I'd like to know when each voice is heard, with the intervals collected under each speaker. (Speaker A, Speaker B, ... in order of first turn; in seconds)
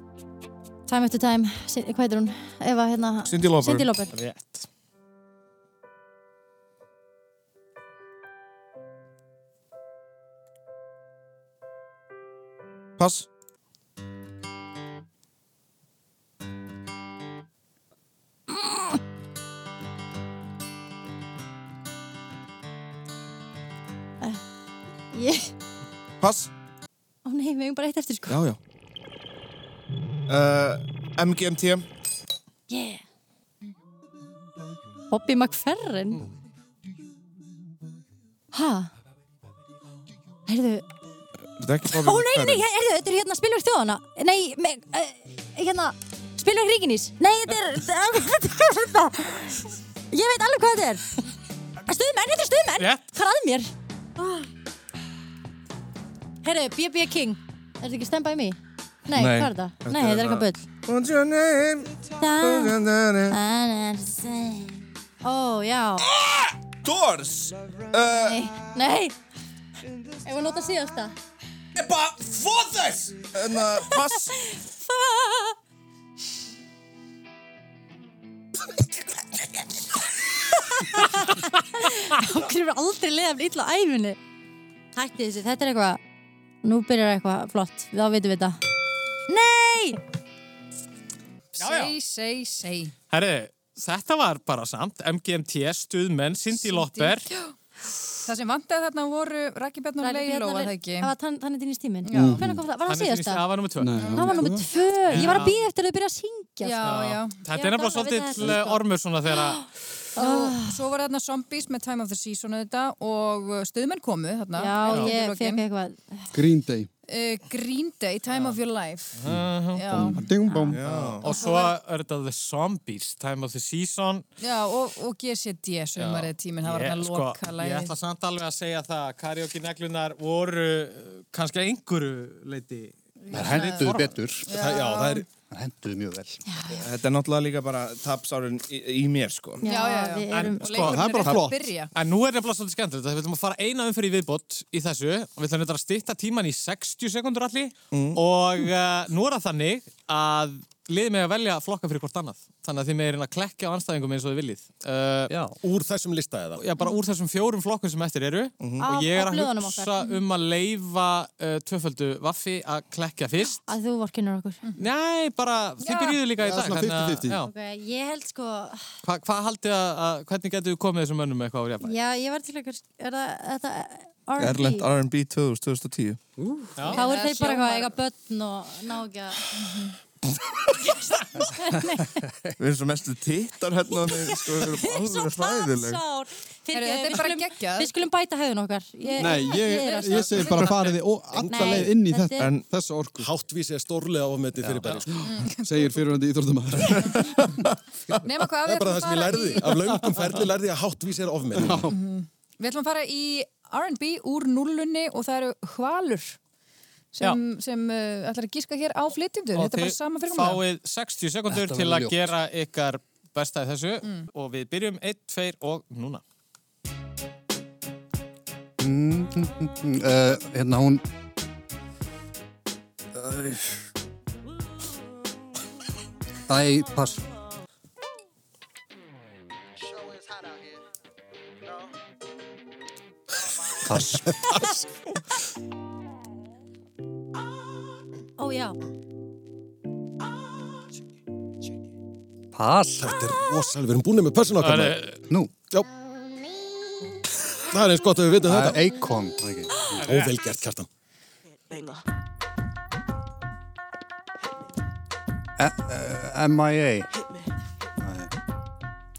Speaker A: 0.9-4.1, 18.5-18.9, 25.1-25.5, 27.2-28.4, 32.7-33.0, 35.1-36.3, 38.5-38.9, 40.5-40.9, 41.9-51.0, 51.9-53.7, 56.4-60.6, 62.2-62.8, 63.3-66.0, 68.1-69.1, 70.2-71.1, 73.8-75.5, 80.6-84.2, 84.9-86.0, 86.6-88.6, 89.3-90.0, 100.0-106.9, 107.5-110.8, 114.5-116.3, 120.5-120.7, 121.2-121.7, 136.5-136.8, 139.6-140.9, 158.8-160.2, 163.6-164.6, 167.4-168.8, 171.8-174.9, 176.8-179.4, 181.5-182.2, 183.9-190.9, 191.4-192.5, 238.4-238.8
Speaker B: 3.2-3.9, 13.0-13.3, 26.2-26.5, 28.3-28.6, 30.3-31.8, 41.6-42.6, 59.1-63.4, 66.1-68.4, 71.8-72.1, 73.3-74.3, 120.7-121.2, 136.7-139.6, 147.9-148.2, 158.6-158.9, 174.4-176.2, 182.6-186.0, 192.4-192.7
Speaker C: 4.1-4.7, 52.8-53.0, 91.6-91.9, 93.1-97.3, 102.8-104.4, 105.0-105.6, 106.8-109.6, 114.9-115.1, 119.2-119.8, 120.8-124.2, 126.0-134.1, 140.3-141.0, 141.9-155.3, 156.6-163.6, 164.8-167.5, 169.0-171.9, 176.8-177.0, 209.5-216.2, 244.6-245.2, 250.0-250.4
Speaker D: 91.5-92.9, 96.5-97.5, 98.2-101.1, 102.0-102.4, 104.0-104.5, 105.1-105.5, 106.6-107.4, 110.2-115.6, 117.1-119.2, 119.7-120.2, 124.4-127.9, 133.3-133.9, 134.4-135.2, 139.6-141.9, 165.8-166.2, 176.9-177.9, 179.6-179.9, 186.7-187.9, 189.0-189.3, 195.2-195.9, 198.2-199.8, 201.9-206.4, 207.1-210.6
Speaker E: 102.1-102.6, 103.8-104.7, 116.3-116.9, 119.3-120.8, 140.8-141.7, 166.4-167.4, 189.2-193.3, 195.1-197.4, 201.6-201.9
Speaker F: 133.3-134.5, 135.5-136.4, 155.3-155.6, 211.5-212.3, 218.8-221.0, 223.1-223.8, 226.5-227.2, 233.8-234.6, 242.5-243.2, 248.4-250.0, 255.6-257.1, 258.0-258.3
Speaker G: 134.5-135.2, 155.6-156.6, 191.4-191.8, 193.2-195.2, 198.6-201.9, 243.0-245.0, 247.7-248.8, 249.9-250.9